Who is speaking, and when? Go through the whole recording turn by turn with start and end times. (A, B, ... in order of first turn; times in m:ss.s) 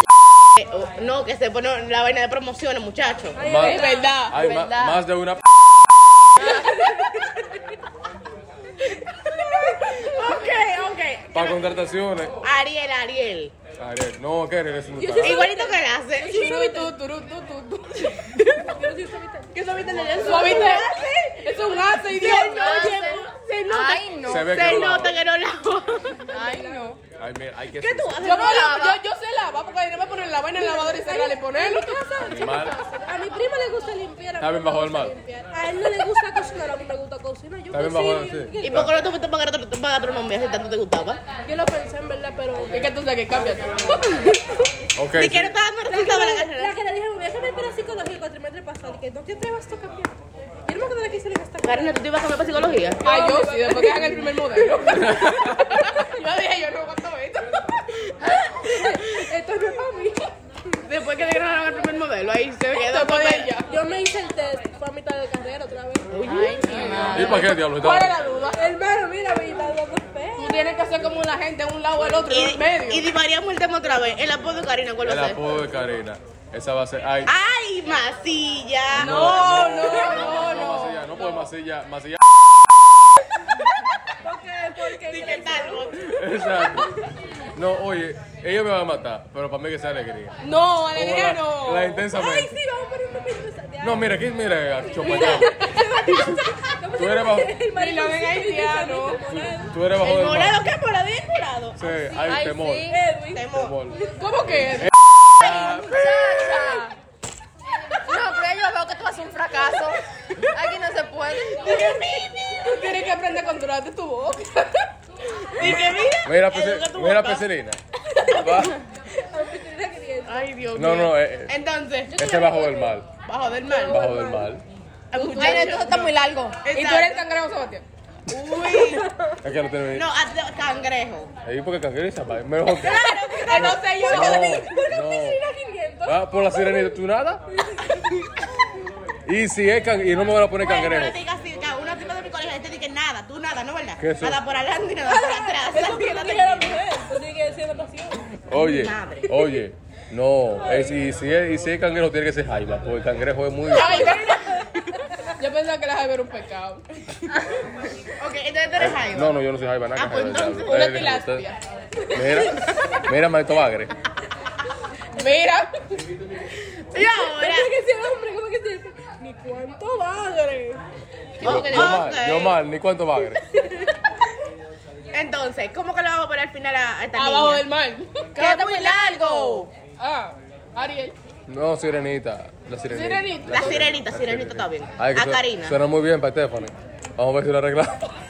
0:00.6-0:03.4 A
0:03.3-0:04.2 B
0:03.4-0:05.4 C
0:03.6-0:04.5 D
0:04.5-0:04.9 A
0:06.4-0:06.8 A
0:09.3-0:11.6 A
0:11.3-0:12.4 C
0:12.4-0:13.5 A
0:13.8-0:15.5 C
0:15.0-0:16.9 B
0:15.2-0:16.6 A
0:16.2-0:18.4 D
0:18.6-0:20.9 B
0:19.8-0:21.4 A
0:20.2-0:20.9 D
0:20.2-0:20.5 E
0:21.4-0:23.0 D
0:22.0-0:26.3 A
0:22.5-0:24.5 E
0:24.2-0:25.2 C
0:26.3-0:27.0 B
0:26.3-0:27.0 E
0:27.2-0:28.2 C
0:27.8-0:29.0 A
0:28.1-0:28.9 E
0:28.2-0:32.0 D
0:30.6-0:38.9 B
0:32.2-0:32.7 C
0:34.4-0:35.1 C
0:37.7-0:38.9 C
0:38.6-0:41.2 A
0:41.4-0:42.8 B
0:42.7-0:44.4 D
0:45.0-0:45.6 C
0:45.1-0:46.8 A
0:45.9-0:50.1 B
0:50.6-0:52.0 B
0:51.6-0:53.0 A
0:53.0-0:54.3 B
0:53.0-0:57.9 D
0:55.0-0:55.6 C
0:58.6-1:00.3 B
1:00.8-1:03.5 A
1:02.7-1:03.7 D
1:03.7-1:06.1 B
1:06.1-1:07.4 A
1:06.2-1:07.4 E
1:06.7-1:08.6 D
1:07.1-1:08.2 C
1:08.5-1:10.7 B
1:10.4-1:13.1 D
1:12.3-1:15.4 A
1:15.0-1:17.3 C
1:17.2-1:20.3 A
1:18.9-1:22.2 C
1:18.9-1:21.2 D
1:24.2-1:26.0 B
1:24.8-1:26.2 A
1:26.1-1:26.9 C
1:27.5-1:30.4 C
1:30.4-1:32.0 D
1:30.9-1:32.6 C
1:32.1-1:34.1 B
1:33.8-1:35.6 C
1:34.9-1:39.7 B
1:36.9-1:37.5 C
1:37.7-1:39.2 D
1:39.3-1:40.6 C
1:40.0-1:41.8 A
1:41.8-1:42.9 C
1:42.2-1:43.0 E
1:42.8-1:44.1 B
1:43.3-1:43.8 A
1:43.5-1:46.8 C
1:44.2-1:44.9 D
1:45.4-1:46.0 A
1:45.5-1:46.9 E
1:48.0-1:51.8 E
1:51.6-1:52.9 A
1:52.6-1:54.9 D
1:55.5-1:57.4 A
1:55.6-1:58.8 C
1:59.2-2:00.5 B
2:00.2-2:02.2 A
2:00.7-2:01.5 C
2:02.1-2:03.0 B
2:02.1-2:03.1 C
2:03.2-2:04.1 A
2:03.7-2:04.5 B
2:03.8-2:04.6 C
2:05.1-2:07.2 A
2:05.1-2:06.0 D
2:05.2-2:06.6 E
2:06.7-2:07.8 D
2:08.3-2:09.1 A
2:08.7-2:09.1 B
2:09.4-2:10.1 C
2:09.9-2:11.3 A
2:11.4-2:15.4 C
2:12.8-2:14.6 A
2:13.5-2:14.5 D
2:14.1-2:16.8 B
2:16.0-2:17.4 C
2:17.7-2:18.0 B
2:19.2-2:21.2 C
2:20.6-2:26.8 A
2:24.0-2:24.4 C
2:25.0-2:28.2 B
2:28.5-2:34.3 C
2:28.6-2:29.5 A
2:30.6-2:31.0 B
2:33.7-2:34.6 D
2:34.1-2:34.7 B
2:35.4-2:36.8 D
2:38.2-2:39.4 A
2:38.8-2:41.4 C
2:39.9-2:40.8 A
2:40.6-2:41.6 D
2:42.1-2:43.9 C
2:45.2-2:45.7 D
2:46.9-2:47.7 A
2:47.0-2:50.8 B
2:51.4-2:52.6 A
2:51.4-2:53.4 C
2:53.6-2:53.9 B
2:55.1-2:57.7 A
2:57.1-3:01.1 D
2:58.4-2:59.7 A
3:01.5-3:08.1 C
3:02.9-3:03.9 D
3:03.5-3:05.8 A